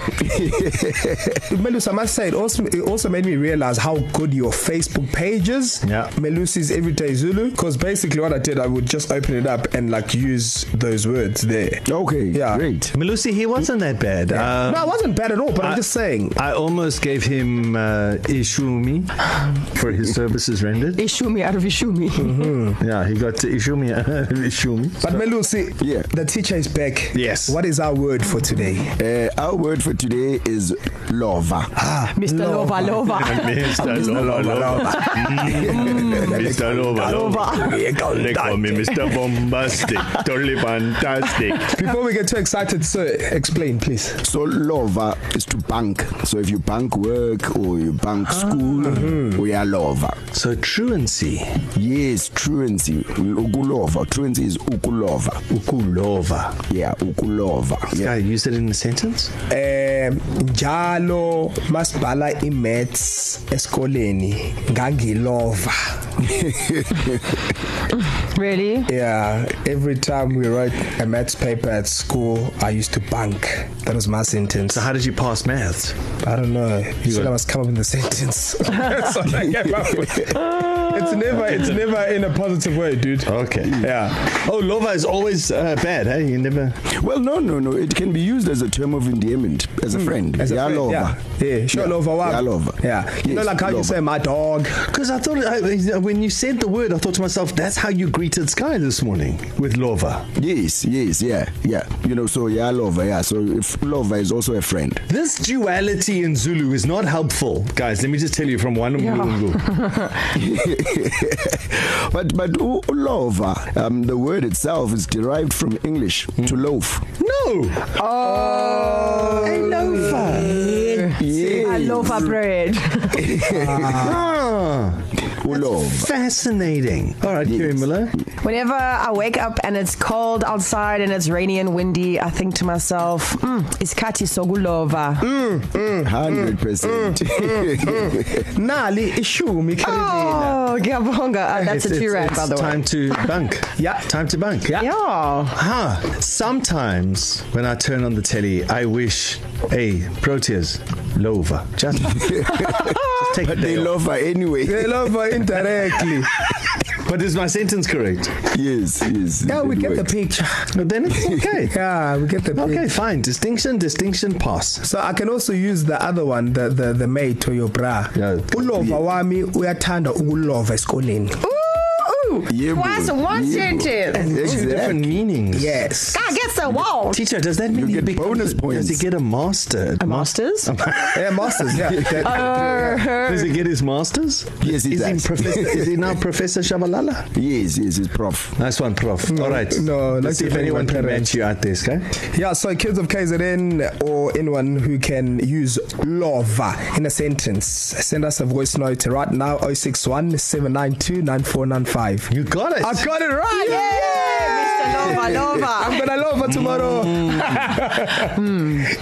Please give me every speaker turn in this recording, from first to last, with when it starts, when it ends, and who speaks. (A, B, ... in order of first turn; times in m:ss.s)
0:00.2-0:01.4 A
0:01.4-0:12.6 B
0:05.8-0:06.1 C
0:11.9-0:12.9 A
0:12.9-0:14.9 C
0:14.3-0:16.4 B
0:15.6-0:21.0 C
0:21.0-0:22.5 D
0:22.2-0:22.8 B
0:22.8-0:25.2 C
0:25.0-0:29.0 B
0:25.8-0:26.1 A
0:27.1-0:27.6 C
0:29.0-0:31.8 A
0:31.8-0:33.1 B
0:32.1-0:34.3 D
0:33.1-0:41.8 C
0:33.8-0:39.1 B
0:34.8-0:36.3 D
0:35.6-0:36.7 A
0:37.0-0:37.9 D
0:41.6-0:44.2 B
0:44.2-0:50.2 A
0:48.9-0:49.4 B
0:50.3-0:51.6 C
0:51.8-0:55.4 A
0:55.5-0:56.6 C
0:56.7-0:58.1 A
0:57.9-0:59.3 C
0:59.5-1:06.4 B
1:06.3-1:07.2 A
1:08.2-1:08.9 D
1:08.9-1:14.9 B
1:14.7-1:16.0 C
1:16.2-1:24.2 B
1:17.0-1:17.4 C
1:21.3-1:21.9 C
1:23.2-1:26.8 C
1:26.9-1:31.2 A
1:29.9-1:34.8 B
1:31.7-1:34.0 A
1:34.7-1:40.3 C
1:40.4-1:45.0 A
1:45.1-1:49.7 C
1:49.0-1:50.3 D
1:50.3-1:57.0 A
1:57.2-1:57.9 C
1:57.9-2:03.6 D
1:58.2-2:00.5 B
1:59.4-2:00.8 C
2:01.0-2:02.4 A
2:03.1-2:04.1 A
2:03.3-2:04.4 B
2:03.7-2:08.2 C
2:05.4-2:06.1 A
2:07.4-2:07.8 A
2:08.4-2:15.3 D
2:15.2-2:20.6 B
2:16.0-2:18.4 A
2:19.8-2:22.8 D
2:21.5-2:22.2 B
2:21.9-2:24.8 C
2:23.8-2:24.0 B
2:24.7-2:25.6 D
2:25.5-2:33.9 C
2:32.2-2:35.1 A
2:32.6-2:33.0 D
2:34.6-2:36.3 B
2:36.9-2:38.5 C
2:38.5-2:40.1 A
2:39.5-2:40.7 B
2:40.7-2:41.8 C
2:41.7-2:42.9 B
2:42.6-2:44.8 C
2:44.8-2:51.4 B
2:48.1-2:48.8 C
2:51.4-2:54.5 D
2:52.5-2:55.1 A
2:54.1-2:56.0 C
2:55.5-2:56.3 B
2:56.1-2:57.2 D
2:56.6-3:07.3 C
2:57.7-2:59.0 A
3:00.0-3:00.7 D
3:01.1-3:03.0 B
3:01.8-3:02.2 A
3:02.1-3:03.5 D
3:04.6-3:05.9 A
3:07.4-3:08.5 A
3:08.6-3:12.1 C
3:09.3-3:11.4 B
3:12.3-3:22.3 B
3:22.3-3:23.1 C
3:22.8-3:28.8 B
3:23.6-3:26.0 D
3:26.5-3:27.6 C
3:28.4-3:28.8 D